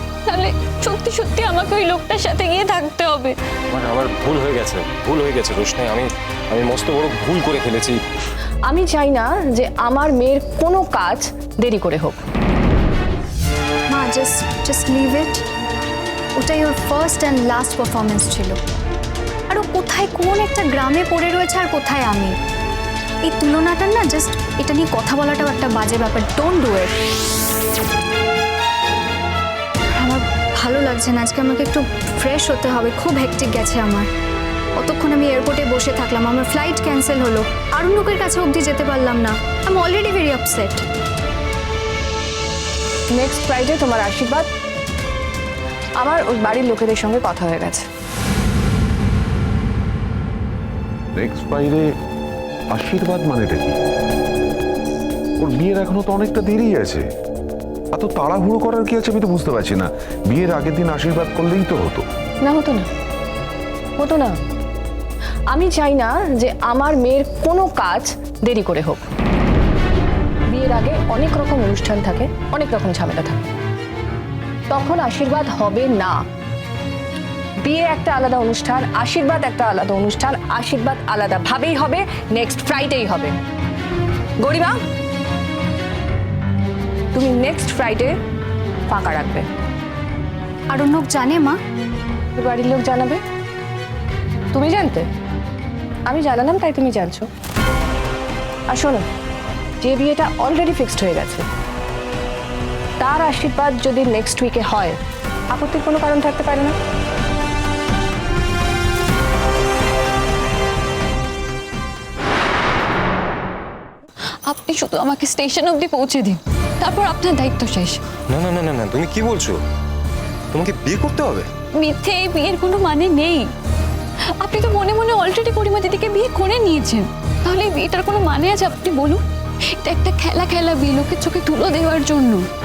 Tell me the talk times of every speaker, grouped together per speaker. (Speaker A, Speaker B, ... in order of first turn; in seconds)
Speaker A: 0.3-3.3, 114.5-118.0, 121.8-123.5, 124.4-129.2, 129.8-132.5
Speaker B: 3.7-8.0, 118.3-119.6, 120.5-121.5
Speaker C: 8.7-12.2, 43.1-44.5, 46.0-47.8, 62.4-62.9, 64.0-64.3, 65.5-69.0, 70.5-73.4, 74.7-76.2, 77.6-83.3, 84.4-84.8, 87.1-88.2, 88.9-89.5, 92.4-93.2, 94.5-95.1, 96.1-97.3, 98.7-99.0, 99.8-101.4, 103.0-105.0, 105.5-106.8
Speaker D: 13.9-15.4, 16.4-18.6, 19.5-22.4, 23.2-27.0, 29.9-34.1, 34.8-40.8, 90.7-91.6
Speaker E: 51.1-51.9, 52.7-53.8, 55.4-57.0, 57.9-62.0